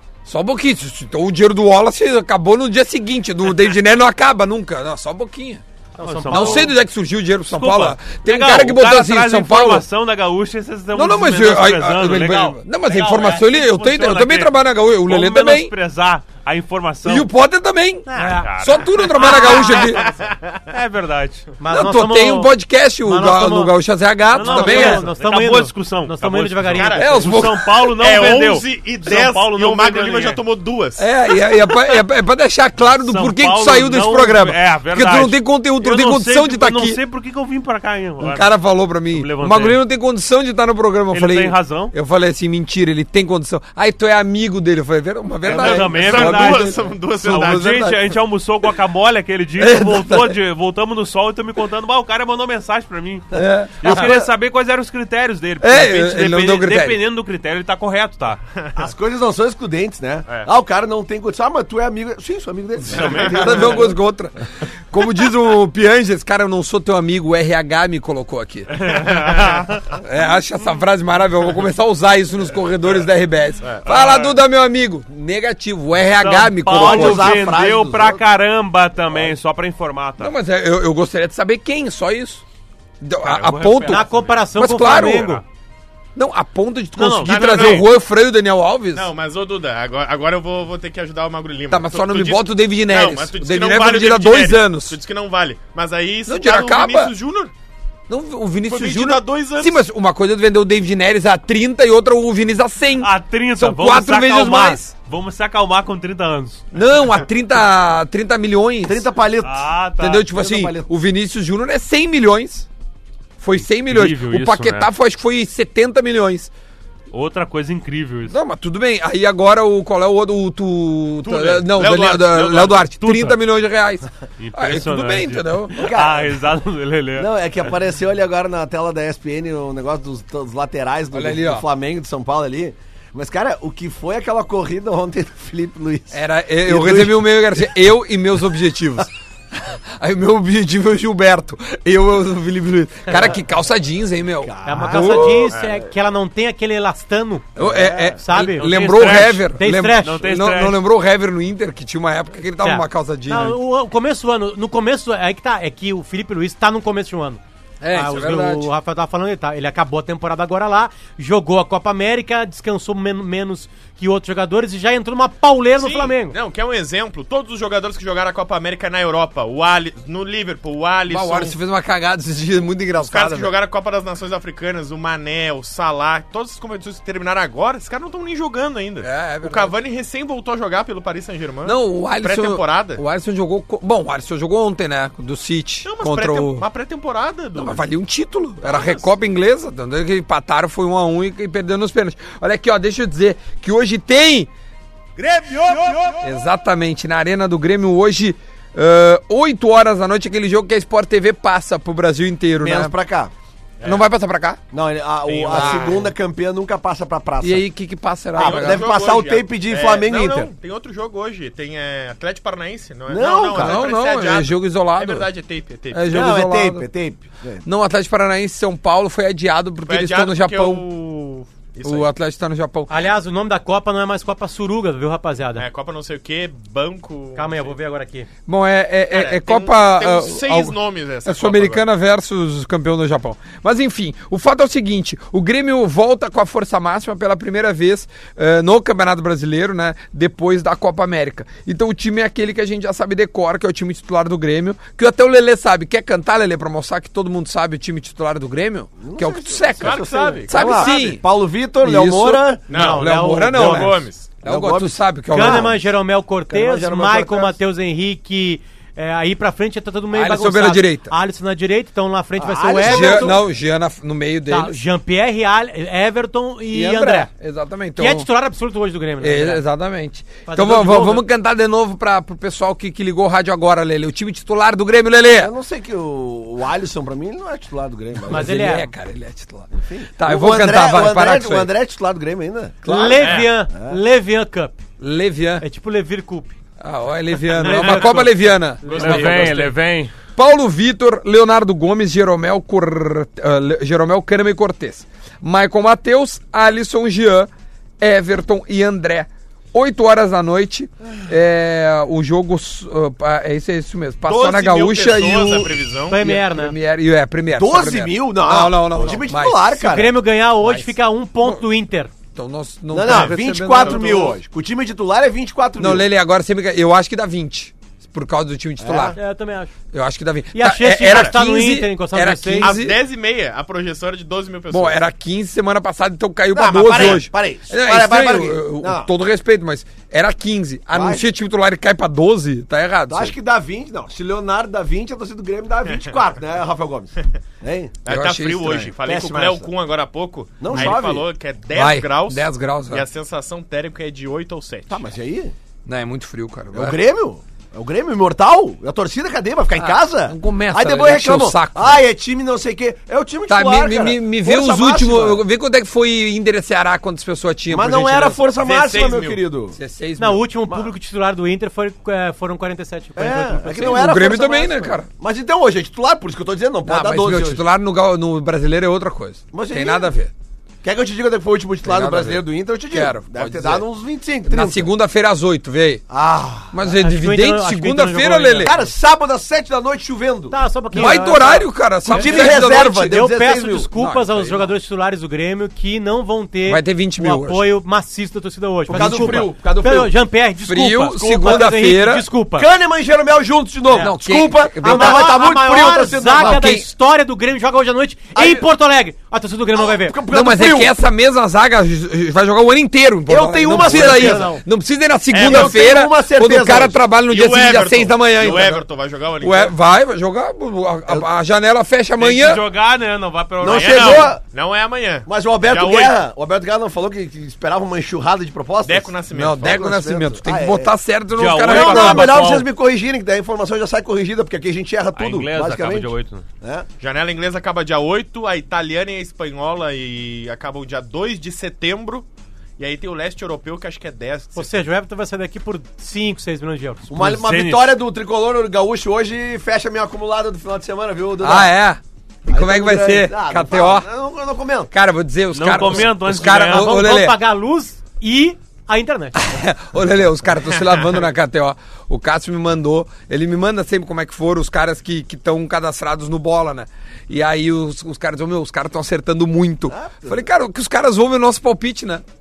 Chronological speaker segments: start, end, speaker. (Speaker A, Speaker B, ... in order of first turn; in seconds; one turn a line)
Speaker A: 0.2-5.6
Speaker B: 6.0-6.7
Speaker C: 6.0-6.7
Speaker A: 6.3-9.8
Speaker C: 7.5-14.5
Speaker A: 10.9-15.7
Speaker C: 15.0-17.3
Speaker A: 17.0-20.0
Speaker B: 18.1-18.5
Speaker C: 18.4-19.9
Speaker D: 19.3-20.6
Speaker C: 20.7-21.5
Speaker B: 21.6-22.5
Speaker A: 21.7-25.0
Speaker B: 23.0-23.7
Speaker C: 24.3-30.4
Speaker B: 24.4-27.3
Speaker D: 26.8-27.3
Speaker A: 27.0-27.8
Speaker D: 28.0-31.0
Speaker A: 31.0-37.0
Speaker C: 33.1-38.5
Speaker A: 38.2-47.9
Speaker C: 39.1-39.8
Speaker C: 41.1-41.9
Speaker C: 45.5-58.4
Speaker D: 45.5-47.9
Speaker A: 49.6-50.4
Speaker A: 53.3-54.3
Speaker E: 53.4-53.9
Speaker A: 55.6-57.0
Speaker E: 58.8-63.9
Speaker C: 62.9-63.9
Speaker A: 63.3-69.1
Speaker C: 69.1-69.6
Speaker D: 69.2-69.5
Speaker A: 69.9-77.5
Speaker D: 73.6-74.2
Speaker C: 73.9-74.3
Speaker C: 76.1-80.3
Speaker E: 76.7-78.2
Speaker A: 80.2-82.4
Speaker A: 83.0-85.4
Speaker C: 83.2-85.3
Speaker B: 83.9-85.4
Speaker A: 86.1-89.1
Speaker B: 87.0-87.3
Speaker D: 87.2-87.9
Speaker C: 87.4-87.8
Speaker D: 88.9-97.5
Speaker A: 91.7-95.0
Speaker A: 96.3-97.1
Speaker A: 98.1-104.9
Speaker D: 98.7-99.8
Speaker C: 103.0-106.6
Speaker A: 106.7-109.0
Speaker E: 108.8-110.9
Speaker C: 109.4-110.2
Speaker A: 110.0-112.7
Speaker A: 113.4-116.5
Speaker C: 113.7-114.9
Speaker C: 117.1-118.4
Speaker A: 118.3-125.8
Speaker D: 121.2-122.9
Speaker C: 123.0-123.3
Speaker C: 124.4-127.3
Speaker E: 125.8-126.3
Speaker E: 127.2-137.6
Speaker A: 131.1-131.7
Speaker A: 136.1-145.5
Speaker E: 144.4-145.8
Speaker B: 144.6-147.5
Speaker A: 147.6-153.6
Speaker E: 147.6-148.2
Speaker B: 148.2-150.2
Speaker C: 148.3-150.8
Speaker B: 152.6-157.4
Speaker A: 157.8-158.7
Speaker B: 157.9-166.4
Speaker D: 165.8-171.6
Speaker A: 171.1-173.5
Speaker D: 173.0-183.0
Speaker A: 179.0-179.7
Speaker A: 181.6-186.7
Speaker D: 185.8-187.9
Speaker A: 187.6-194.5
Speaker D: 188.6-189.1
Speaker A: 196.2-202.9
Speaker E: 202.6-203.3
Speaker A: 203.8-204.6
Speaker E: 204.7-207.7
Speaker D: 205.2-206.1
Speaker A: 205.5-206.0
Speaker A: 207.4-208.9
Speaker D: 208.3-216.3
Speaker E: 208.4-210.5
Speaker E: 213.1-213.9
Speaker A: 213.5-215.3
Speaker A: 215.9-216.9
Speaker E: 216.1-217.6
Speaker A: 217.6-220.8
Speaker D: 219.8-222.1
Speaker A: 221.8-222.9
Speaker B: 222.9-225.7
Speaker D: 225.6-227.7
Speaker B: 227.3-228.3
Speaker A: 228.5-255.7
Speaker D: 229.1-231.8
Speaker E: 249.0-252.7
Speaker D: 249.8-250.9
Speaker D: 252.7-254.4
Speaker B: 252.7-254.0
Speaker E: 254.4-255.8
Speaker B: 255.3-263.3
Speaker E: 256.5-257.5
Speaker A: 260.1-261.1
Speaker E: 262.4-263.4
Speaker A: 262.8-264.8
Speaker B: 264.5-267.3
Speaker A: 266.7-268.3
Speaker B: 268.0-269.6
Speaker A: 269.2-275.5
Speaker B: 270.4-271.2
Speaker E: 275.4-278.7
Speaker A: 278.3-281.7
Speaker B: 278.3-278.9
Speaker E: 279.7-283.0
Speaker A: 282.8-283.4
Speaker B: 282.9-284.8
Speaker D: 283.2-283.5
Speaker E: 283.6-284.0
Speaker A: 285.0-285.6
Speaker B: 285.6-286.5
Speaker A: 286.8-289.7
Speaker B: 287.6-288.3
Speaker D: 287.6-288.3
Speaker B: 288.8-289.6
Speaker D: 288.8-289.6
Speaker C: 288.9-290.1
Speaker A: 290.4-309.8
Speaker D: 304.2-306.2
Speaker B: 306.1-306.7
Speaker E: 307.5-310.2
Speaker B: 309.8-312.1
Speaker A: 310.6-311.6
Speaker A: 312.3-314.2
Speaker E: 312.9-316.1
Speaker D: 313.0-314.4
Speaker A: 315.8-319.2
Speaker E: 318.8-319.2
Speaker B: 319.1-319.7
Speaker A: 319.9-323.0
Speaker B: 320.5-322.7
Speaker D: 321.1-321.3
Speaker D: 322.6-325.0
Speaker A: 324.7-333.4
Speaker E: 326.5-329.1
Speaker D: 326.8-327.2
Speaker E: 330.9-331.2
Speaker E: 333.1-338.0
Speaker D: 338.0-345.1
Speaker A: 338.1-338.9
Speaker E: 339.0-339.7
Speaker E: 340.6-341.3
Speaker A: 340.7-341.0
Speaker A: 341.7-343.0
Speaker E: 344.9-345.5
Speaker A: 345.9-347.0
Speaker E: 346.7-355.4
Speaker A: 349.8-352.0
Speaker A: 353.5-358.4
Speaker E: 357.7-359.8
Speaker D: 358.5-359.4
Speaker A: 359.7-360.5
Speaker B: 360.2-364.1
Speaker E: 363.1-367.6
Speaker A: 363.7-365.1
Speaker A: 366.8-370.3
Speaker E: 369.5-370.1
Speaker E: 370.8-374.9
Speaker A: 371.8-373.9
Speaker A: 374.4-376.0
Speaker E: 376.1-376.7
Speaker A: 376.7-378.7
Speaker B: 376.9-378.9
Speaker E: 378.6-381.5
Speaker B: 380.5-392.7
Speaker A: 380.9-383.2
Speaker E: 382.1-383.9
Speaker A: 383.9-384.7
Speaker A: 386.6-387.7
Speaker A: 388.9-389.5
Speaker E: 388.9-390.1
Speaker A: 390.6-392.3
Speaker E: 392.5-396.7
Speaker B: 393.9-394.2
Speaker A: 394.0-395.4
Speaker B: 394.8-400.2
Speaker A: 396.4-396.9
Speaker E: 398.3-398.7
Speaker E: 399.7-400.9
Speaker A: 400.3-408.8
Speaker E: 403.3-404.6
Speaker B: 403.7-404.6
Speaker D: 405.3-405.8
Speaker E: 405.4-407.0
Speaker D: 407.3-409.7
Speaker A: 409.4-412.6
Speaker C: 412.2-414.3
Speaker E: 413.6-414.4
Speaker D: 413.6-416.1
Speaker E: 415.3-420.9
Speaker D: 418.8-419.8
Speaker A: 419.3-422.4
Speaker C: 421.4-422.7
Speaker E: 421.6-426.9
Speaker C: 425.1-426.4
Speaker D: 427.0-432.3
Speaker D: 432.8-434.9
Speaker B: 434.5-437.1
Speaker E: 437.1-441.7
Speaker C: 437.1-438.0
Speaker A: 441.4-444.1
Speaker E: 442.5-444.9
Speaker A: 444.9-447.4
Speaker C: 445.5-447.1
Speaker B: 446.4-449.4
Speaker A: 449.3-462.2
Speaker E: 459.9-460.4